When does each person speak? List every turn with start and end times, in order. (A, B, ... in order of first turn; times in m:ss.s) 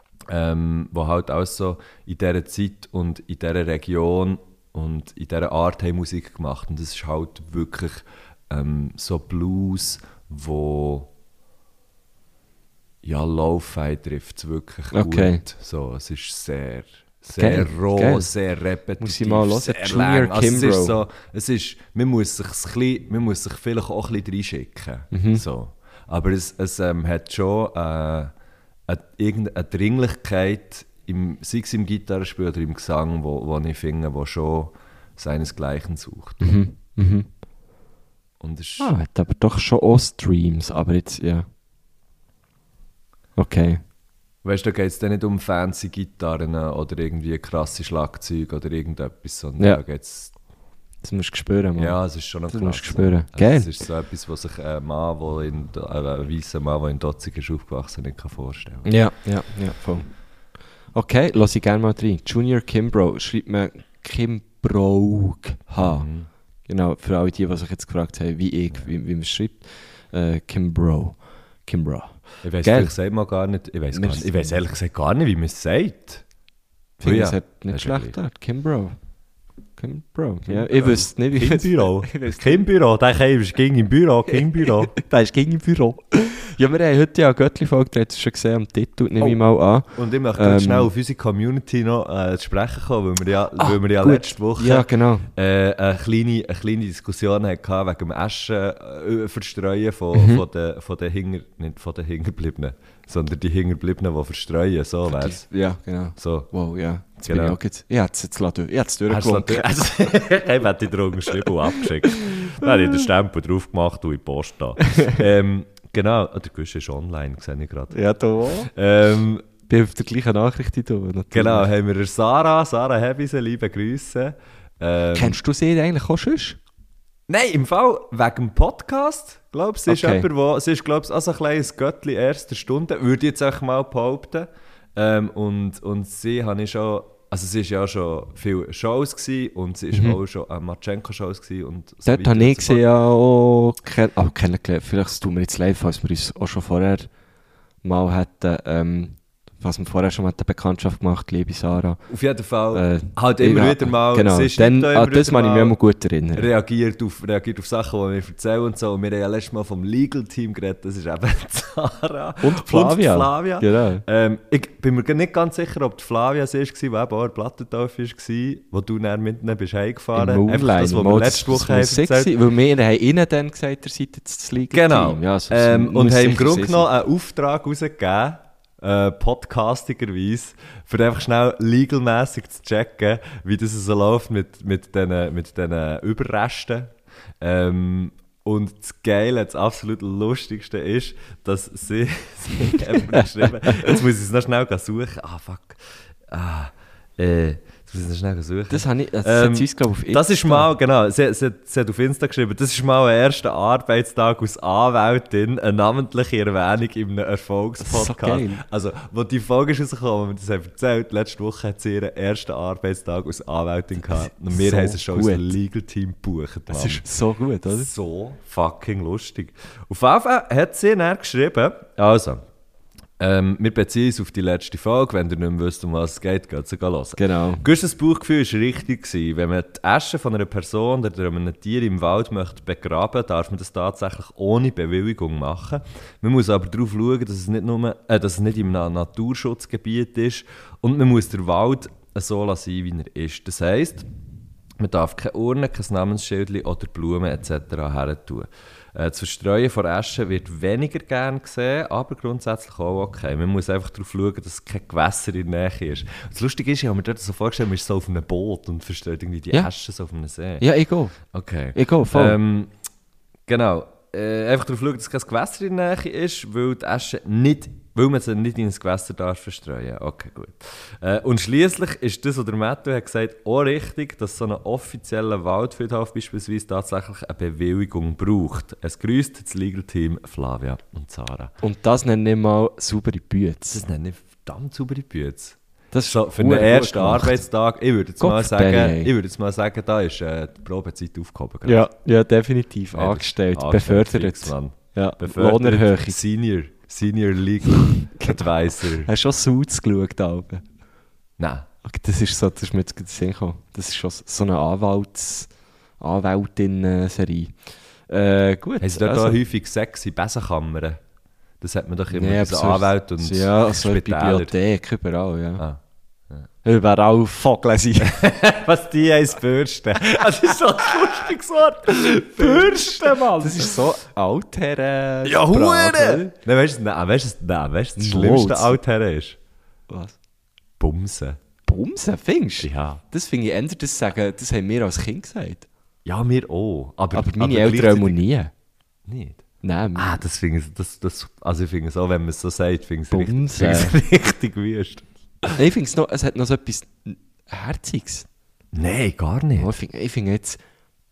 0:00.3-0:11.1 A
0:13.0-0:28.3 A
0:14.9-0:15.4 B
0:17.3-0:18.3 B
0:19.0-0:21.0 B
0:25.1-0:25.4 B
0:28.9-0:36.6 A
0:36.4-0:37.3 B
0:38.4-0:38.9 A
0:38.8-0:41.5 B
0:43.4-0:43.8 B
0:44.4-0:50.3 A
0:51.0-0:53.7 B
0:51.8-0:58.9 A
0:58.8-1:00.1 B
1:00.9-1:06.1 B
1:05.8-1:06.3 A
1:06.7-1:13.0 B
1:12.4-1:16.2 A
1:13.9-1:14.6 B
1:17.0-1:19.0 B
1:17.0-1:18.2 A
1:19.8-1:22.6 B
1:20.5-1:25.0 A
1:25.0-1:30.9 B
1:29.9-1:45.5 A
1:33.6-1:35.3 B
1:40.1-1:40.4 B
1:45.1-1:49.7 B
1:46.2-1:46.5 A
1:47.2-1:47.6 A
1:49.1-1:58.0 A
1:51.8-1:52.6 B
1:57.9-1:58.7 B
1:58.7-1:59.5 A
1:59.7-2:01.7 B
2:01.3-2:05.4 A
2:05.1-2:06.6 B
2:07.3-2:22.8 A
2:09.9-2:10.3 B
2:19.9-2:20.2 B
2:22.0-2:27.1 B
2:27.8-2:32.0 B
2:32.1-2:35.8 A
2:32.7-2:36.5 B
2:36.4-2:52.3 A
2:42.4-2:44.0 B
2:50.1-2:56.9 B
2:54.7-3:37.0 A
3:12.8-3:14.0 B
3:18.7-3:20.7 B
3:27.8-3:28.6 B
3:34.4-3:35.5 B
3:36.7-3:37.9 B
3:37.7-3:42.4 A
3:43.2-4:04.1 A
3:47.2-3:47.6 B
4:04.8-4:20.7 A
4:20.6-4:21.2 B
4:21.2-4:22.7 A
4:21.7-4:22.4 B
4:23.5-4:41.5 A
4:41.6-4:43.8 B
4:43.7-4:51.9 A
4:45.9-4:47.4 B
4:48.2-4:49.1 B
4:51.6-4:56.2 B
4:52.9-4:59.1 A
4:58.1-4:58.5 B
4:59.0-5:00.6 B
5:01.4-5:01.7 A
5:01.8-5:09.4 B
5:08.8-5:11.0 A
5:11.6-5:14.6 A
5:12.1-5:15.6 B
5:15.6-5:16.5 A
5:16.6-5:18.2 B
5:18.0-5:23.8 A
5:22.3-5:26.3 B
5:25.2-5:29.4 A
5:28.0-5:28.8 B
5:29.9-5:30.2 B
5:30.8-5:31.4 A
5:31.7-5:35.7 B
5:32.6-5:33.0 A
5:36.0-5:38.2 A
5:37.1-5:38.5 B
5:39.1-5:39.4 A
5:39.6-5:40.2 B
5:40.0-5:45.6 A
5:43.1-5:44.0 B
5:45.5-5:48.3 B
5:48.7-5:49.7 A
5:49.6-5:50.6 B